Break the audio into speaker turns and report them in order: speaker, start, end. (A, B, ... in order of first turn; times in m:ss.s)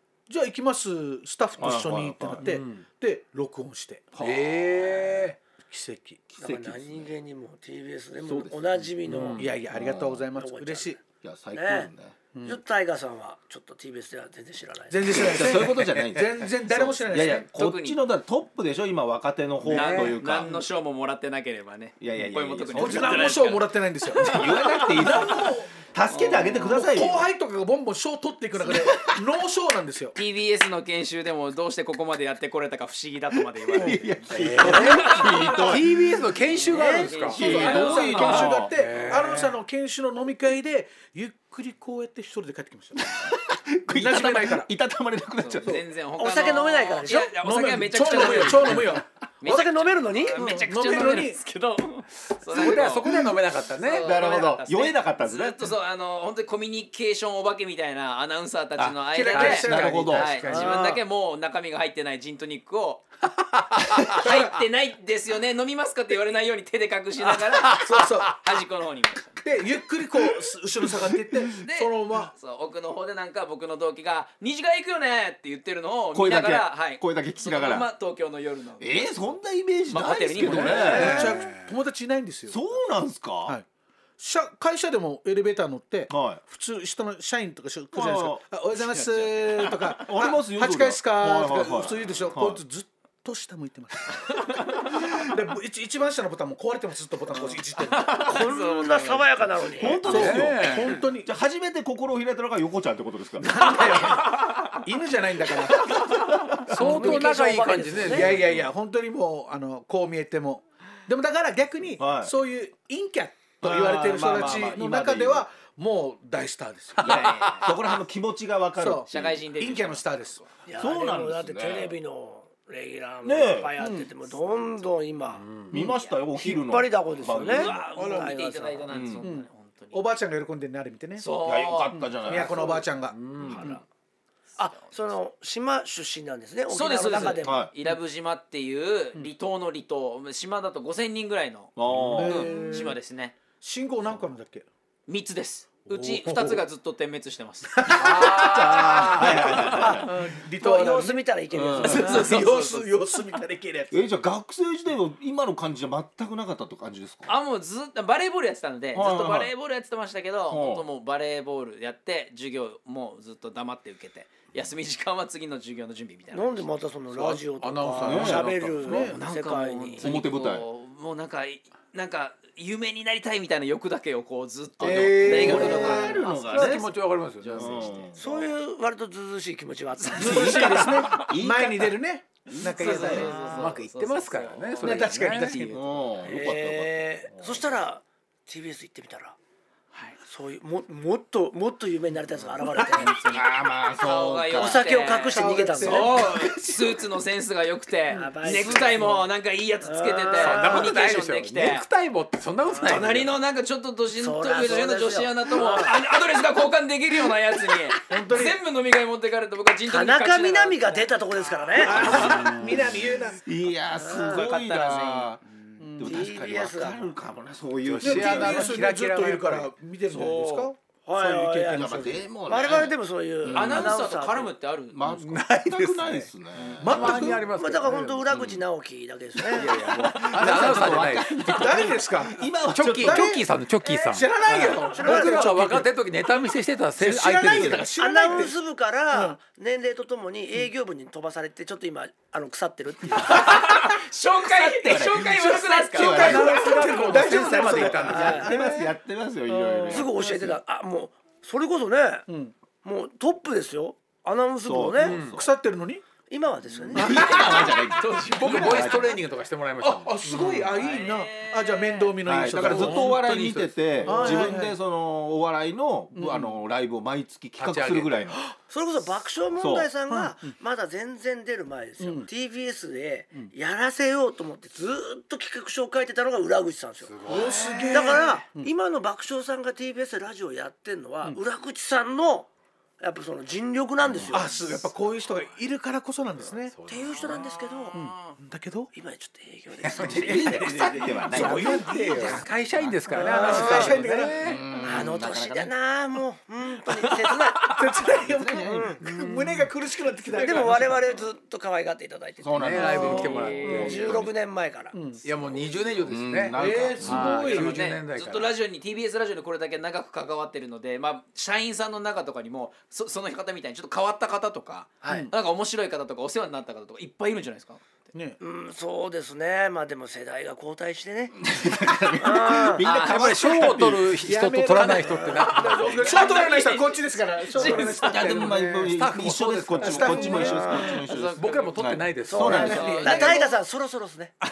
0:00.3-0:04.1 A
0:01.6-0:02.5 B
0:02.4-0:02.9 C
0:04.1-0:04.9 B
0:04.2-0:05.4 C
0:05.6-0:06.2 A
0:06.3-0:07.1 B
0:06.4-0:09.4 D
0:08.2-0:08.9 B
0:09.1-0:09.6 C
0:09.2-0:11.0 A
0:09.7-0:10.2 B
0:10.3-0:11.0 D
0:11.2-0:12.2 B
0:11.5-0:11.9 D
0:12.3-0:12.6 A
0:12.4-0:15.3 D
0:14.9-0:17.5 A
0:15.1-0:20.6 B
0:16.7-0:17.2 C
0:17.1-0:18.0 E
0:19.6-0:20.2 C
0:19.7-0:25.3 E
0:22.0-0:23.4 B
0:22.7-0:25.7 A
0:24.2-0:27.3 B
0:26.1-0:26.6 E
0:26.6-0:30.2 A
0:28.6-0:29.0 B
0:30.2-0:35.8 E
0:33.4-0:36.2 B
0:34.3-0:37.6 C
0:36.4-0:38.7 E
0:36.7-0:37.1 D
0:37.3-0:39.0 B
0:37.3-0:43.3 A
0:38.6-0:39.5 C
0:43.2-0:45.8 B
0:43.9-0:44.7 A
0:45.4-0:53.1 E
0:46.2-0:47.3 D
0:47.1-0:49.6 A
0:49.4-0:50.4 D
0:50.4-0:51.4 A
0:52.5-0:54.1 C
0:52.6-0:53.2 B
0:53.7-1:03.1 E
0:54.0-0:55.7 B
0:59.1-1:01.0 A
0:59.3-1:00.5 B
0:59.7-1:00.2 C
1:00.5-1:00.8 D
1:03.5-1:04.2 C
1:03.9-1:09.4 E
1:04.2-1:04.5 A
1:07.5-1:07.9 C
1:07.8-1:08.4 A
1:09.4-1:12.3 A
1:11.6-1:19.3 E
1:16.1-1:17.9 B
1:18.8-1:21.4 B
1:19.9-1:21.3 E
1:20.4-1:21.7 C
1:20.6-1:22.8 A
1:22.5-1:23.6 B
1:24.2-1:38.4 A
1:26.1-1:26.4 B
1:27.9-1:32.6 B
1:37.3-1:39.4 E
1:38.2-1:40.0 D
1:39.8-1:43.8 B
1:40.0-1:41.0 C
1:40.0-1:41.3 A
1:43.4-1:47.2 A
1:43.8-1:44.6 E
1:46.7-1:48.4 C
1:46.8-1:48.3 D
1:48.0-1:57.2 A
1:48.2-1:48.6 B
1:52.0-1:52.3 B
1:53.6-1:55.5 B
1:57.0-1:59.5 B
1:57.0-1:57.7 E
1:57.1-1:57.7 C
1:58.8-2:00.4 A
1:59.1-2:00.5 E
2:00.6-2:05.5 D
2:00.8-2:02.0 B
2:03.2-2:03.8 B
2:03.8-2:04.1 A
2:05.4-2:05.8 C
2:05.7-2:07.8 B
2:05.8-2:06.1 E
2:06.3-2:08.8 D
2:07.3-2:10.0 E
2:08.0-2:08.3 A
2:08.9-2:09.2 B
2:09.2-2:11.3 A
2:11.2-2:12.5 E
2:11.4-2:12.9 B
2:11.9-2:13.8 A
2:13.0-2:13.7 C
2:13.4-2:13.6 B
2:14.6-2:17.6 D
2:14.6-2:15.0 E
2:16.7-2:23.4 E
2:17.4-2:17.7 B
2:21.8-2:22.6 B
2:21.9-2:22.3 C
2:22.1-2:23.0 A
2:23.6-2:24.6 A
2:25.1-2:30.0 E
2:25.9-2:26.6 A
2:27.8-2:31.3 A
2:27.9-2:29.4 C
2:28.4-2:30.1 B
2:30.6-2:32.4 D
2:31.5-2:32.3 B
2:31.8-2:34.1 A
2:31.8-2:33.0 E
2:33.9-2:37.4 B
2:37.3-2:46.7 E
2:38.9-2:39.5 B
2:40.5-2:40.9 B
2:46.3-2:50.0 D
2:47.2-2:49.1 C
2:48.0-2:48.4 B
2:48.3-2:49.2 A
2:49.1-2:56.9 E
2:50.0-2:50.6 B
2:54.8-2:56.9 B
2:54.8-2:58.0 C
2:54.8-2:56.2 A
2:57.4-2:58.5 E
2:57.5-2:58.2 B
2:58.2-3:00.8 D
3:00.0-3:01.2 E
3:00.2-3:03.5 B
3:00.2-3:03.7 A
3:02.6-3:05.7 E
3:03.0-3:05.7 C
3:04.8-3:06.0 A
3:05.7-3:07.8 B
3:06.2-3:09.4 D
3:10.2-3:13.1 D
3:12.7-3:21.9 E
3:13.0-3:14.8 B
3:14.6-3:16.2 D
3:15.3-3:16.9 A
3:18.1-3:19.2 A
3:18.1-3:19.2 D
3:19.8-3:21.0 D
3:20.4-3:23.3 C
3:22.7-3:23.3 D
3:22.8-3:32.2 E
3:24.1-3:26.0 D
3:28.1-3:28.6 A
3:29.9-3:32.2 D
3:31.8-3:33.4 A
3:32.2-3:33.0 C
3:33.4-3:35.4 B
3:33.9-3:34.5 D
3:34.1-3:35.8 E
3:35.8-3:36.2 A
3:36.0-3:38.8 B
3:36.0-3:37.1 D
3:37.8-3:39.4 C
3:38.0-3:42.3 A
3:40.2-3:44.5 D
3:41.7-3:44.0 B
3:43.5-3:45.0 E
3:44.9-3:47.4 B
3:45.0-3:48.3 C
3:46.8-3:47.5 A
3:47.4-3:49.8 D
3:48.3-3:48.6 B
3:49.5-3:51.9 C
3:49.7-3:53.3 B
3:50.4-3:55.9 A
3:52.7-3:57.9 C
3:54.8-3:55.5 D
3:57.0-3:58.6 A
3:57.5-3:57.8 B
3:58.0-4:03.4 D
3:59.1-3:59.4 A
4:03.2-4:06.5 E
4:04.4-4:10.6 B
4:05.4-4:08.8 A
4:06.1-4:08.6 C
4:08.0-4:08.5 D
4:09.5-4:12.3 D
4:12.3-4:12.5 A
4:12.8-4:15.2 D
4:14.6-4:15.5 B
4:15.0-4:15.4 C
4:15.3-4:16.0 A
4:16.3-4:17.3 D
4:16.9-4:17.8 A
4:16.9-4:19.2 B
4:17.0-4:18.9 E
4:18.3-4:20.8 C
4:18.4-4:19.1 A
4:19.8-4:24.8 A
4:20.4-4:22.2 E
4:22.2-4:28.4 B
4:22.6-4:24.5 C
4:26.1-4:26.6 A
4:27.6-4:28.2 C
4:28.7-4:37.3 D
4:29.6-4:29.9 B
4:30.1-4:30.5 A
4:32.0-4:32.3 A
4:37.0-4:37.9 C
4:37.2-4:38.7 A
4:37.9-4:42.5 D
4:43.0-4:44.5 D
4:44.1-4:44.8 C
4:44.3-4:46.7 A
4:46.6-4:47.4 C
4:46.9-4:48.0 D
4:47.3-4:48.4 E
4:47.9-4:48.9 A
4:48.9-4:50.7 D
4:49.8-4:54.7 C
4:50.1-4:53.0 B
4:50.3-4:52.5 A
4:53.1-4:54.5 A
4:53.2-4:54.0 D
4:54.4-4:55.7 B
4:54.8-4:57.7 D
4:57.6-5:01.0 A
4:58.1-4:59.0 B
4:58.7-4:59.0 D
5:00.3-5:05.0 D
5:02.4-5:04.3 B
5:02.6-5:04.0 C
5:03.0-5:04.0 E
5:04.9-5:05.2 A
5:05.2-5:08.5 C
5:06.0-5:07.5 B
5:06.5-5:07.9 A
5:07.4-5:17.8 E
5:15.0-5:15.3 A
5:18.1-5:18.4 A
5:18.4-5:21.4 D
5:21.3-5:24.2 B
5:22.2-5:22.8 D
5:22.8-5:23.3 E
5:23.0-5:26.1 C
5:24.2-5:29.0 A
5:25.4-5:28.5 E
5:27.8-5:33.0 B
5:28.6-5:30.4 C
5:29.8-5:31.0 A
5:30.4-5:31.0 D
5:30.9-5:31.9 E
5:31.2-5:32.7 C
5:32.2-5:34.3 D
5:32.4-5:33.5 A
5:32.5-5:33.5 E